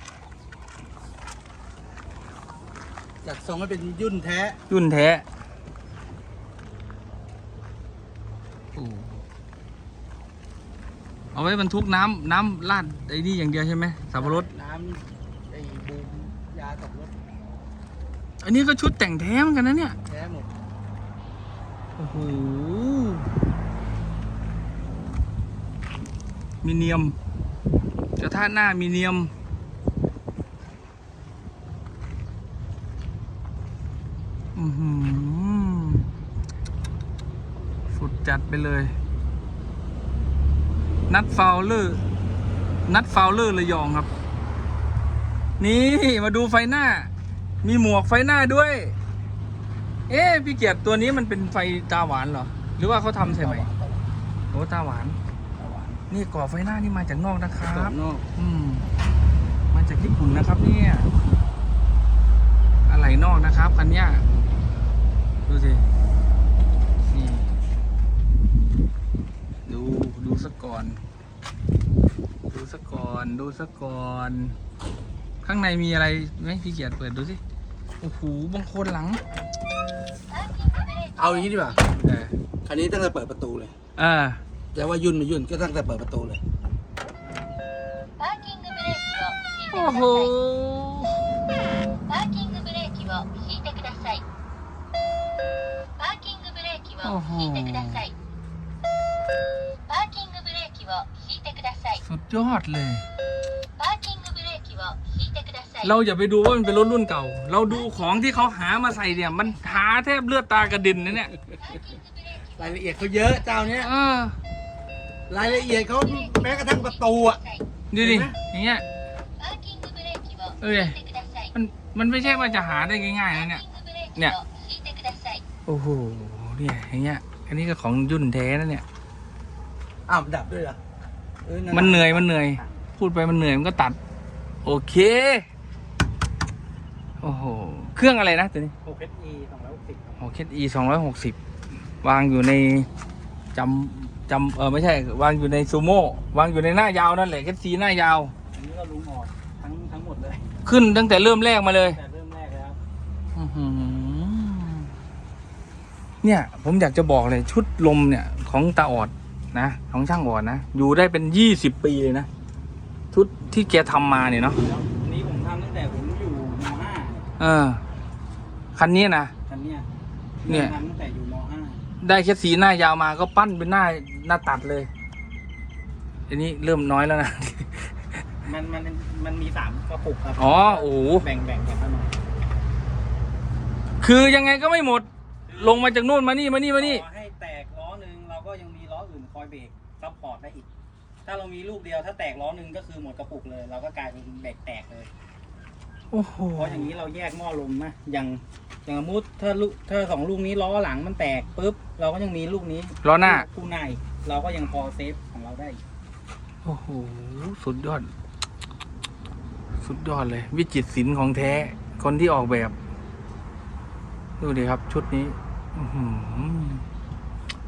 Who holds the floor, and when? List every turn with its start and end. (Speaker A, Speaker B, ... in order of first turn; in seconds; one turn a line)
Speaker A: 3.2-4.6
Speaker B: 4.7-5.2
Speaker B: 8.8-9.2
Speaker B: 11.3-14.5
Speaker A: 14.2-17.2
Speaker B: 18.4-20.0
Speaker A: 20.1-20.5
Speaker B: 22.0-23.3
Speaker B: 26.6-27.2
Speaker B: 28.2-29.3
Speaker B: 34.5-36.1
Speaker B: 37.9-38.9
Speaker B: 41.1-42.0
Speaker B: 42.9-44.1
Speaker B: 45.6-47.1
Speaker B: 47.6-49.0
Speaker B: 50.1-53.7
Speaker A: 53.2-54.1
Speaker B: 54.5-55.2
Speaker A: 55.6-56.0
Speaker B: 56.1-58.9
Speaker A: 57.6-58.2
Speaker B: 59.7-61.1
Speaker B: 62.9-64.2
Speaker B: 65.5-65.9
Speaker B: 67.1-67.5
Speaker B: 69.7-71.0
Speaker B: 72.5-74.6
Speaker B: 75.4-77.4
Speaker B: 78.0-79.2
Speaker C: 80.3-81.8
Speaker A: 81.2-81.8
Speaker B: 82.0-82.3
Speaker A: 82.7-83.8
Speaker B: 84.0-84.4
Speaker A: 84.7-86.4
Speaker C: 88.2-90.4
Speaker B: 89.7-91.2
Speaker C: 92.1-94.2
Speaker C: 96.0-98.1
Speaker B: 97.0-98.1
Speaker C: 99.9-102.0
Speaker B: 102.0-103.0
Speaker C: 103.8-106.0
Speaker B: 105.8-111.3
Speaker C: 107.7-109.7
Speaker C: 111.4-112.8
Speaker A: 112.6-113.9
Speaker B: 113.8-114.4
Speaker A: 115.3-117.4
Speaker C: 115.5-117.7
Speaker B: 117.9-118.8
Speaker A: 118.0-118.3
Speaker C: 119.4-121.5
Speaker B: 120.6-121.0
Speaker B: 121.5-123.6
Speaker C: 123.3-125.4
Speaker B: 125.7-128.8
Speaker A: 130.1-130.8
Speaker A: 131.4-132.3
Speaker B: 131.7-134.0
Speaker B: 134.7-135.5
Speaker B: 137.2-138.7
Speaker D: 138.8-140.2
Speaker B: 140.2-141.4
Speaker B: 142.0-142.9
Speaker B: 143.5-148.3
Speaker D: 148.5-150.4
Speaker B: 150.7-152.0
Speaker D: 151.8-152.8
Speaker B: 153.3-154.9
Speaker B: 156.2-162.3
Speaker B: 163.1-164.6
Speaker D: 164.6-167.3
Speaker B: 167.4-167.8
Speaker B: 168.8-169.3
Speaker D: 169.5-169.9
Speaker D: 170.4-171.8
Speaker B: 170.5-170.7
Speaker B: 172.0-174.9
Speaker B: 176.3-178.2
Speaker D: 178.5-182.2
Speaker B: 180.4-181.2
Speaker B: 184.0-187.1
Speaker D: 185.5-186.0
Speaker D: 186.8-190.7
Speaker D: 191.2-195.1
Speaker B: 196.1-196.9
Speaker D: 196.6-205.8
Speaker B: 203.0-203.5
Speaker B: 206.7-208.1
Speaker B: 209.8-212.8
Speaker B: 214.4-216.8